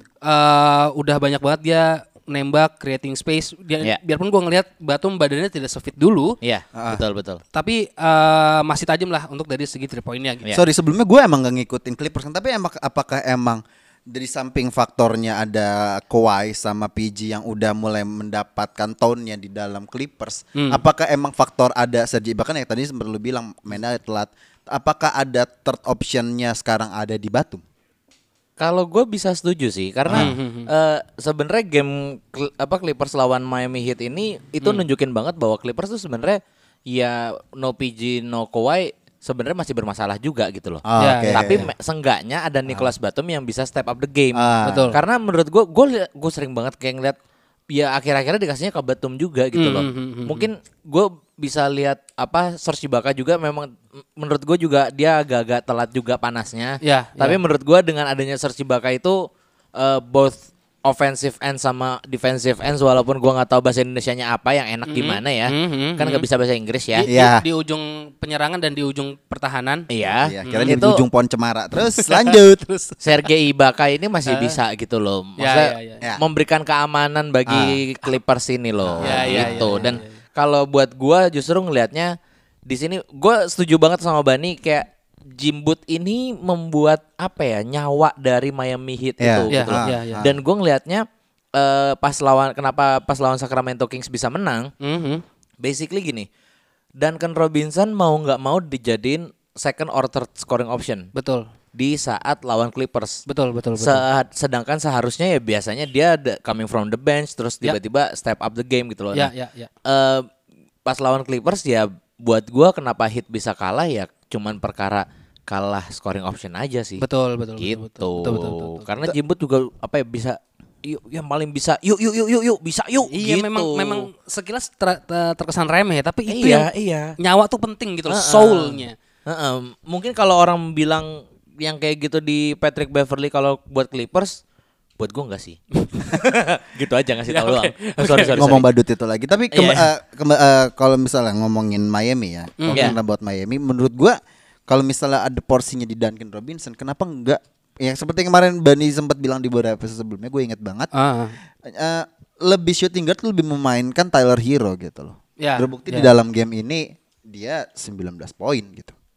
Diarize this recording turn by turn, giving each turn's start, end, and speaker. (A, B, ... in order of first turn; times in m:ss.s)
0:00.2-0:06.4 A
0:06.4-0:07.4 B
0:06.8-0:07.0 C
0:07.5-0:10.5 A
0:10.5-0:27.6 C
0:28.6-0:47.2 B
0:30.1-0:30.3 C
0:30.1-0:30.7 A
0:40.8-0:41.7 C
0:41.0-0:41.6 A
0:44.4-0:45.0 C
0:44.6-0:45.0 A
0:47.7-1:07.1 B
0:49.5-0:50.5 A
0:56.8-0:57.4 A
1:04.9-1:06.2 A
1:07.0-1:09.9 A
1:07.1-1:07.4 C
1:09.9-1:11.0 B
1:10.2-1:13.0 C
1:10.5-1:10.8 A
1:13.0-1:22.1 B
1:14.2-1:14.6 A
1:15.4-1:16.0 A
1:18.8-1:19.9 C
1:19.0-1:20.1 A
1:22.7-1:34.7 B
1:29.2-1:30.3 C
1:29.5-1:30.2 A
1:34.8-1:35.2 A
1:35.6-1:36.3 B
1:37.0-1:41.1 B
1:41.1-1:41.5 A
1:41.8-1:43.2 B
1:43.3-1:44.0 A
1:43.8-1:49.3 B
1:49.1-1:49.7 A
1:49.9-1:50.3 B
1:50.9-1:57.0 B
1:57.0-1:59.1 A
1:57.6-2:04.1 B
2:03.1-2:09.0 A
2:06.3-2:07.1 B
2:08.1-2:14.4 B
2:15.0-2:18.6 B
2:17.3-2:18.4 A
2:18.4-2:24.2 C
2:19.5-2:19.9 B
2:22.6-2:23.0 A
2:22.7-2:23.0 B
2:24.7-2:30.9 C
2:30.9-2:31.4 A
2:31.6-2:38.9 C
2:35.4-2:36.1 A